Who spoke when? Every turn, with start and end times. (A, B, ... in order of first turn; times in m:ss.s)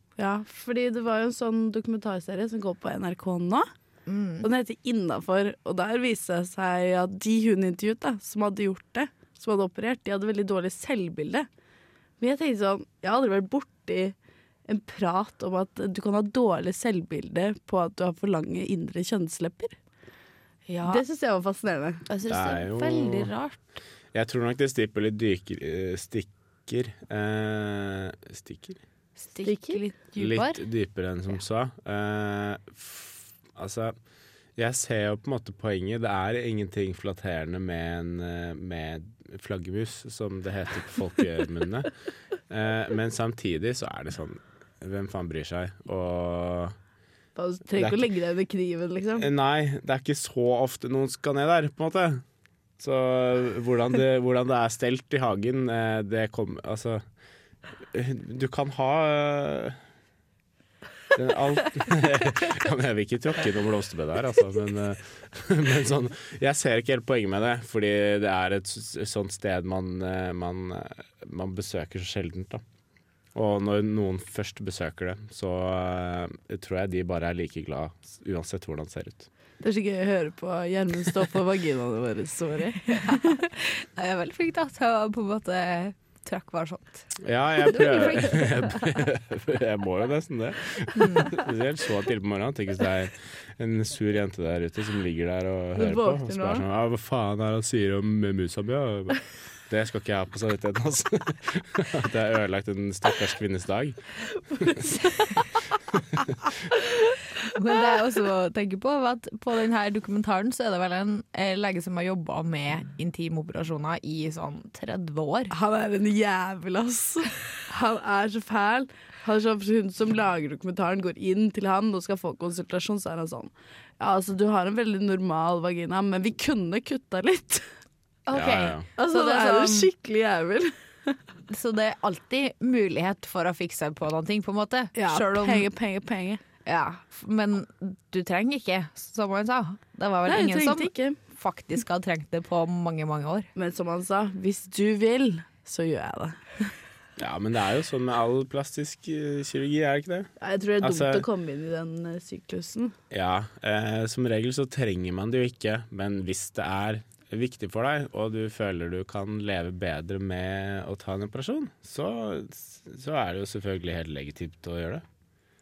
0:00.2-0:03.7 A
0:04.1-0:04.5 B
0:04.4-0:11.5 A
0:12.2-0:14.1 A
0:14.7-0:19.8 A
0:20.7-0:21.0 B
0:20.9-0:22.0 A
0:22.1-0:23.6 B
0:22.3-0:23.3 C
0:24.1-0:28.8 C
0:29.2-0:30.6 B
0:29.4-0:29.8 A
0:30.2-0:33.9 C
0:34.6-0:41.9 C
0:42.5-0:46.8 C
0:47.4-0:49.3 A
0:47.8-0:48.0 C
0:49.2-0:52.2 C
0:52.8-0:57.0 C
0:57.9-0:59.8 C
1:01.1-1:12.6 C
1:13.4-1:19.3 C
1:19.6-1:23.4 A
1:23.0-1:27.1 B
1:27.2-1:44.0 C
1:27.6-1:28.8 B
1:31.0-1:31.3 B
1:35.8-1:36.6 A
1:45.9-1:46.4 C
1:47.5-1:55.5 B
1:55.5-2:07.7 A
2:08.3-2:09.9 B
2:08.3-2:08.9 C
2:09.0-2:11.2 A
2:11.5-2:15.7 B
2:15.0-2:16.4 A
2:16.6-2:23.5 B
2:20.3-2:21.2 A
2:23.6-2:26.7 A
2:27.2-2:30.3 C
2:30.4-2:32.9 A
2:30.8-2:31.3 C
2:33.1-2:45.0 C